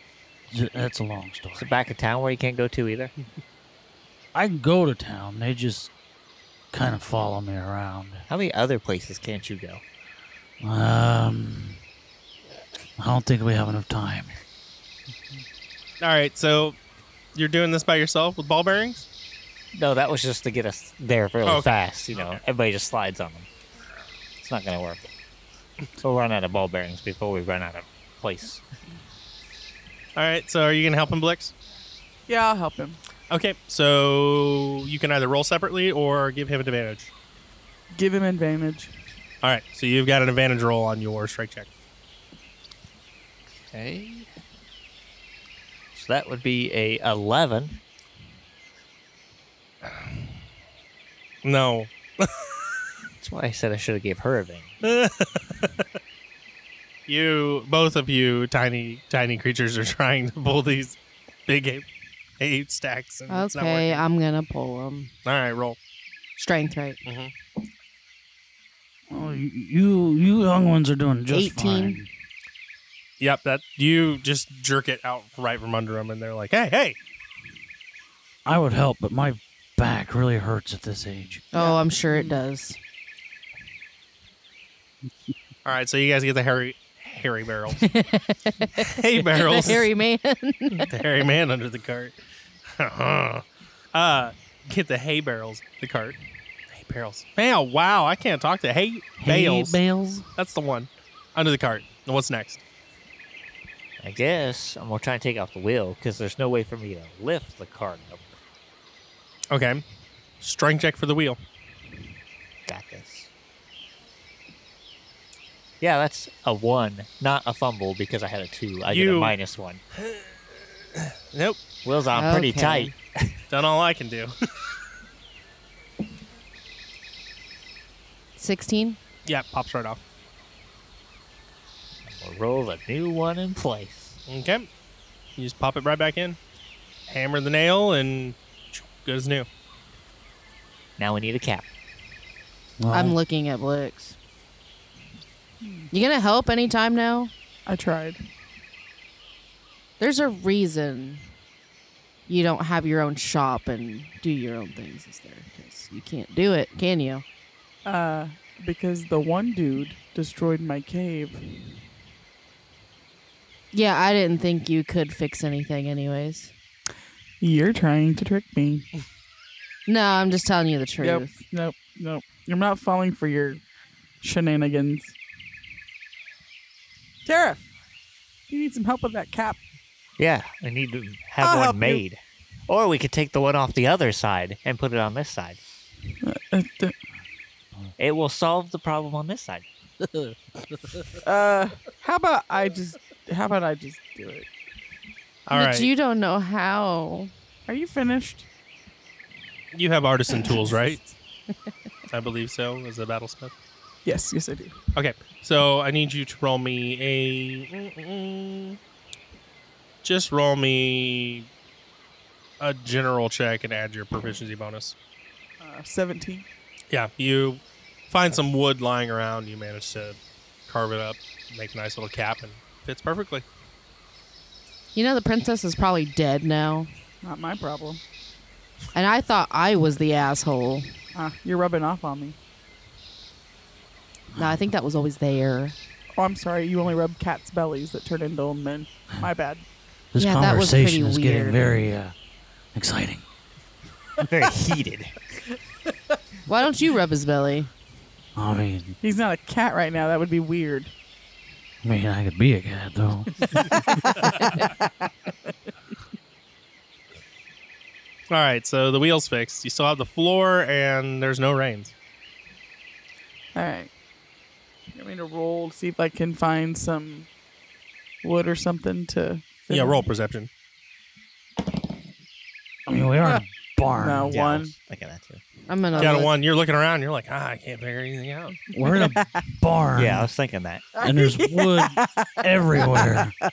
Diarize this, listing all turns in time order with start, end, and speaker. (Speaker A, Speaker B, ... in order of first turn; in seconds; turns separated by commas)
Speaker A: 0.5-1.7, Speaker B: 1.6-3.1, Speaker A: 4.3-5.9, Speaker A: 6.7-8.2, Speaker B: 8.3-9.8, Speaker A: 10.6-11.8, Speaker A: 13.0-14.3, Speaker C: 16.0-16.8, Speaker C: 17.3-19.1, Speaker B: 19.7-23.5, Speaker C: 21.4-22.4, Speaker B: 24.4-25.1, Speaker B: 26.0-28.6, Speaker C: 30.1-31.5, Speaker D: 32.3-33.0, Speaker C: 33.3-37.1, Speaker D: 37.9-38.9, Speaker C: 39.4-41.7, Speaker B: 43.7-44.3, Speaker B: 45.9-47.8, Speaker C: 51.4-52.5, Speaker B: 53.2-54.7, Speaker C: 54.8-55.6, Speaker C: 57.1-61.9, Speaker C: 62.4-64.0, Speaker E: 63.3-65.1, Speaker C: 65.2-65.8, Speaker E: 66.4-67.0, Speaker C: 67.0-67.3, Speaker A: 69.1-72.1, Speaker E: 71.3-72.0, Speaker C: 73.2-77.0, Speaker A: 78.4-81.4, Speaker E: 81.5-82.8, Speaker D: 81.5-82.4, Speaker C: 85.6-87.8, Speaker E: 87.8-90.9, Speaker C: 88.8-89.9, Speaker C: 90.8-92.1, Speaker C: 92.7-93.4, Speaker C: 93.9-96.2, Speaker C: 96.7-99.8, Speaker A: 99.2-100.2, Speaker C: 100.4-102.6, Speaker B: 104.0-108.2, Speaker C: 109.5-109.8, Speaker C: 110.4-111.4, Speaker B: 112.7-113.3, Speaker B: 115.8-119.8, Speaker C: 118.9-119.3, Speaker C: 120.0-120.2, Speaker C: 120.9-121.6, Speaker B: 121.8-123.3, Speaker E: 122.1-122.9, Speaker C: 123.5-124.3, Speaker E: 128.4-129.0, Speaker C: 129.2-130.0, Speaker B: 132.1-134.2, Speaker C: 134.3-134.7, Speaker C: 135.4-136.4, Speaker C: 137.1-139.5, Speaker B: 141.0-141.7, Speaker A: 142.8-143.2, Speaker E: 142.9-144.2, Speaker D: 145.6-145.9, Speaker E: 145.9-147.3, Speaker D: 147.7-148.2, Speaker E: 150.0-151.3, Speaker E: 152.3-157.2, Speaker D: 157.8-161.6, Speaker E: 163.7-166.5, Speaker D: 167.4-168.8, Speaker E: 169.9-171.4, Speaker D: 171.0-173.6, Speaker D: 174.2-175.2, Speaker D: 177.2-177.7, Speaker D: 178.5-179.6, Speaker B: 180.2-185.6, Speaker D: 181.4-182.0, Speaker D: 186.2-186.9, Speaker B: 188.0-189.7, Speaker A: 190.2-191.0, Speaker D: 191.2-194.5, Speaker C: 195.4-195.9, Speaker E: 195.5-197.3, Speaker D: 197.7-198.5, Speaker C: 199.7-201.0, Speaker C: 202.1-203.5, Speaker D: 204.0-204.8, Speaker C: 204.9-208.8, Speaker C: 210.0-211.5, Speaker C: 212.6-214.9, Speaker D: 215.6-216.4, Speaker C: 216.9-220.2, Speaker C: 220.7-223.4, Speaker E: 224.9-226.9, Speaker D: 227.2-228.0, Speaker E: 228.9-231.0, Speaker D: 231.1-232.4, Speaker E: 234.3-235.8, Speaker D: 236.2-239.6, Speaker A: 240.1-242.1, Speaker E: 240.2-241.6, Speaker A: 242.7-243.2, Speaker B: 244.3-245.2, Speaker E: 246.5-247.7, Speaker A: 248.3-248.9, Speaker D: 249.0-250.9, Speaker A: 251.8-253.9, Speaker D: 253.4-255.1, Speaker C: 258.3-261.9, Speaker D: 263.5-263.9, Speaker D: 264.9-267.3, Speaker D: 268.2-270.0, Speaker C: 269.7-270.5, Speaker A: 272.9-274.4, Speaker D: 274.0-274.7, Speaker B: 274.3-275.4, Speaker E: 275.7-276.3, Speaker D: 275.9-276.2, Speaker C: 276.0-278.6, Speaker A: 278.7-280.3, Speaker D: 278.9-279.4, Speaker B: 279.9-280.9, Speaker D: 281.0-283.3, Speaker A: 281.0-283.3